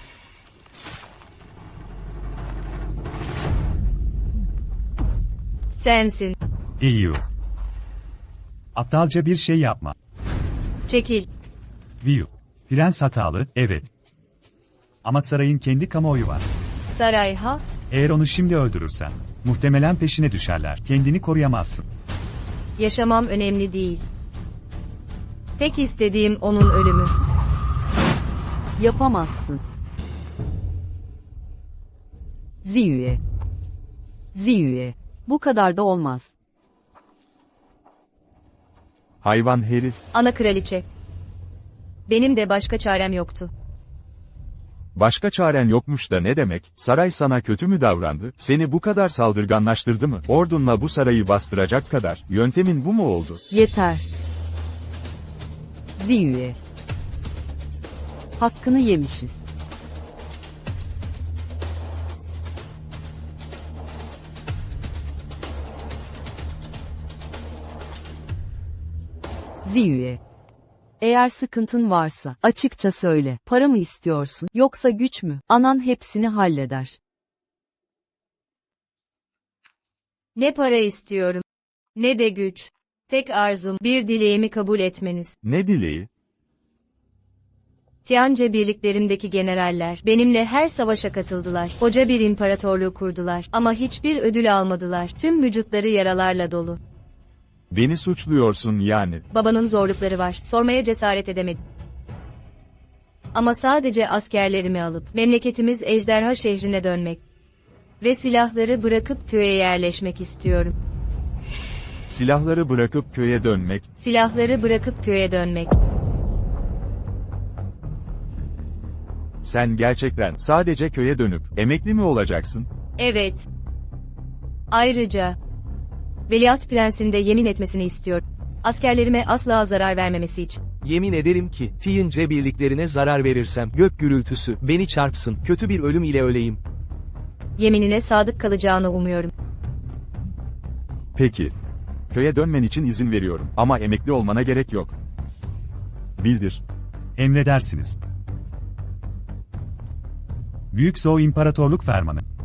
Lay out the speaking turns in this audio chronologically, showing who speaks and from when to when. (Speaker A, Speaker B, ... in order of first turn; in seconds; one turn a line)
Speaker A: 5.8-6.3
Speaker B: 6.8-7.2
Speaker B: 8.8-9.9
Speaker A: 10.9-11.3
Speaker B: 12.0-13.9
Speaker B: 15.0-16.4
Speaker A: 16.9-17.6
Speaker B: 17.9-21.8
Speaker A: 22.8-24.0
Speaker A: 25.6-27.1
Speaker C: 28.8-29.6
Speaker C: 32.6-33.2
Speaker C: 34.3-36.3
Speaker D: 39.2-40.0
Speaker A: 40.1-40.8
Speaker A: 42.1-43.5
Speaker D: 44.9-53.4
Speaker C: 53.5-54.1
Speaker C: 56.0-56.6
Speaker C: 58.4-59.4
Speaker C: 69.6-70.2
Speaker C: 71.0-77.0
Speaker A: 80.3-81.4
Speaker A: 82.0-85.3
Speaker D: 85.4-86.1
Speaker A: 88.0-96.8
Speaker D: 97.7-99.2
Speaker A: 99.3-101.6
Speaker A: 103.3-107.2
Speaker A: 108.0-110.7
Speaker D: 112.1-113.9
Speaker A: 114.0-115.7
Speaker D: 119.4-122.7
Speaker A: 123.0-123.5
Speaker A: 124.7-125.3
Speaker A: 126.3-130.6
Speaker E: 130.8-136.6
Speaker A: 137.6-139.3
Speaker D: 141.1-141.5
Speaker D: 142.1-144.9
Speaker D: 146.2-146.6
Speaker B: 147.2-147.9
Speaker B: 150.7-152.2